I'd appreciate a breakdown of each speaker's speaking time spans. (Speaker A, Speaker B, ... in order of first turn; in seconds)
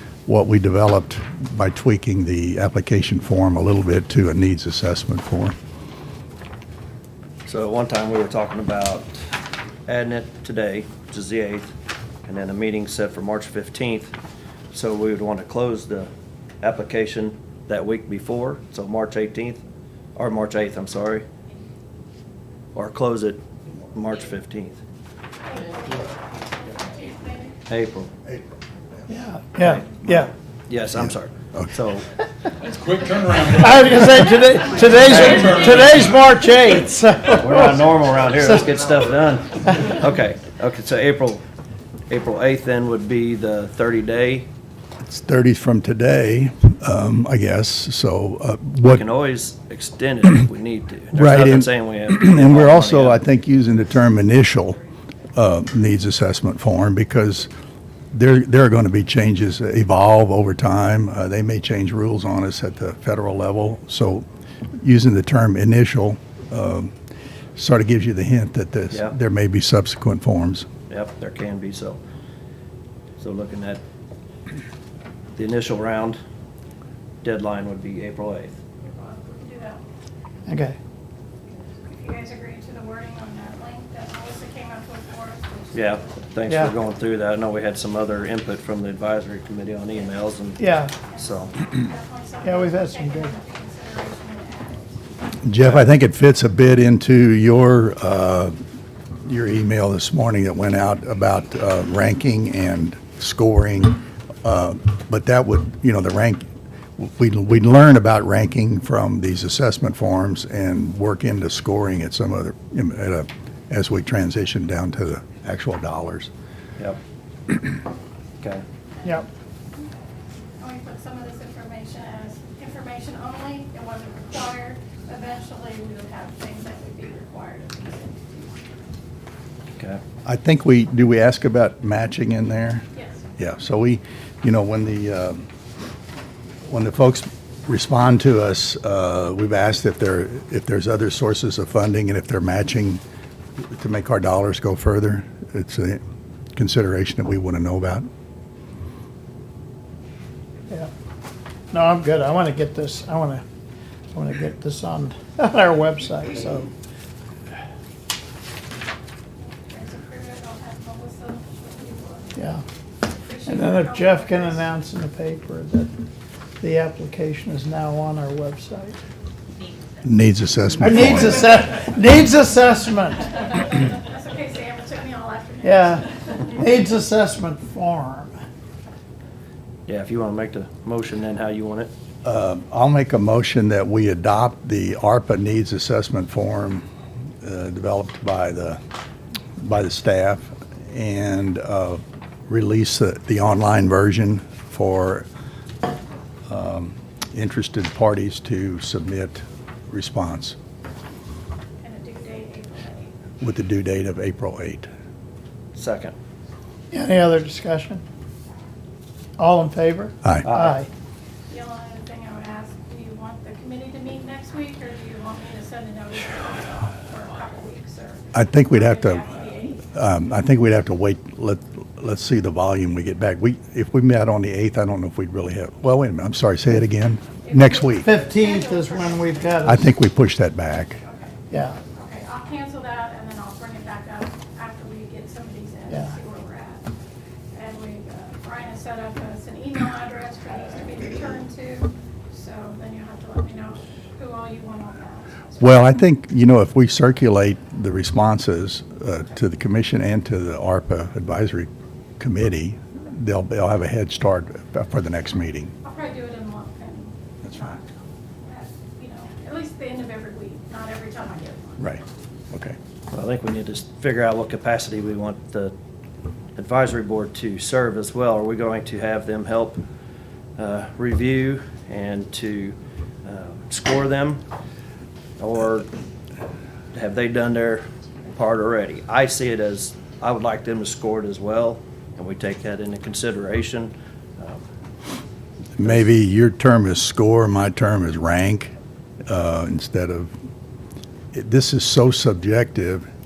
Speaker A: 0.3-5.6, 45.0-49.0, 51.1-54.8, 55.3-57.5, 58.1-64.3, 64.8-66.9, 67.6-70.7, 95.4-98.6, 99.2-106.5, 107.0-116.3, 130.2-132.8, 133.4-135.4, 136.7-143.0, 143.6-146.0, 146.6-148.1, 170.0-171.5, 182.2-186.8, 187.4-188.8, 189.6-195.3, 196.5-200.6, 203.4-204.9, 218.3-228.1, 229.7-231.0, 245.6-255.7, 261.8-262.8, 285.8-288.7, 289.3-290.3, 291.3-293.1
Speaker B: 7.5-9.1, 9.9-11.7, 12.3-14.1, 14.7-16.1, 16.6-19.6, 20.2-21.3, 22.8-24.8, 27.6-28.1, 29.6-32.0, 35.0-35.9, 37.4-41.4, 42.1-44.5, 48.9-53.2, 70.9-72.0, 73.2-73.8, 75.4-76.2, 77.2-78.6, 85.7-90.6, 91.2-91.7, 179.9-181.9, 205.8-206.2, 210.4-210.8, 263.1-265.7, 266.6-269.8, 270.6-274.4, 275.4-275.9, 276.9-284.6, 285.8-286.1
Speaker C: 25.4-27.6, 78.8-79.8, 81.8-86.3, 91.0-95.0, 118.9-119.3, 120.6-128.6, 132.9-133.2, 159.4-162.4, 163.0-164.7, 173.4-176.5, 201.8-203.1, 211.5-219.9, 227.4-229.5, 231.0-236.9, 237.5-245.8, 255.8-257.9, 258.4-261.9
Speaker D: 29.1-30.3, 33.4-38.7, 80.5-80.8, 86.5-86.8, 90.6-91.0, 92.4-93.4, 151.7-153.4, 154.1-156.7, 162.4-162.6, 163.5-165.9, 166.6-169.0, 170.8-173.3, 175.6-178.3, 206.9-208.0, 209.4-210.9, 228.0-229.9, 231.5-231.8
Speaker E: 32.7-34.0, 35.0-36.2